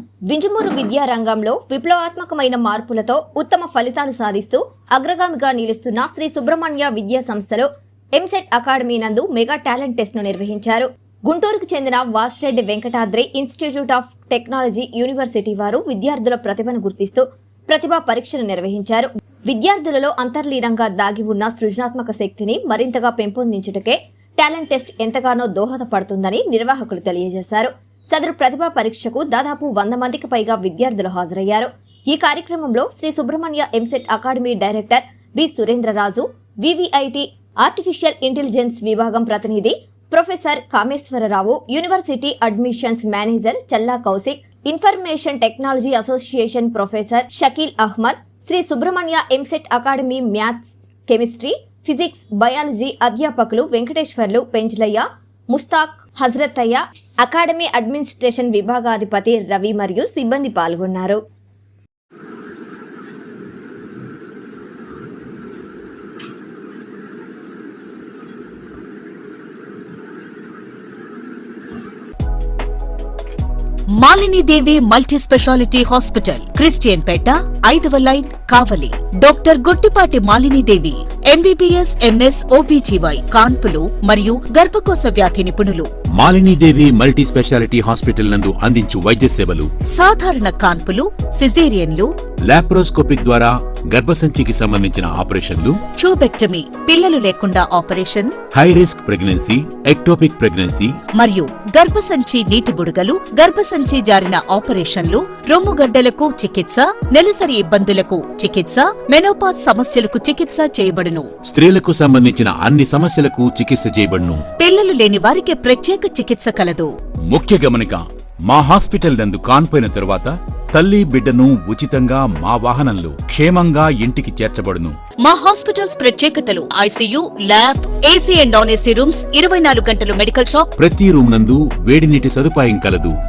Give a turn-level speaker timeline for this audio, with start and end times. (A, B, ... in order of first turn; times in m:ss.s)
0:00.3-1:01.2 A
1:13.9-1:25.9 B
1:26.2-1:29.7 C
1:29.9-1:32.1 B
1:32.5-1:35.8 C
1:36.0-1:38.4 B
1:38.5-1:41.0 C
1:41.1-1:51.3 B
1:51.4-1:54.4 C
1:54.6-1:56.9 B
1:57.3-2:05.0 C
2:05.2-2:10.7 B
2:10.8-2:13.1 C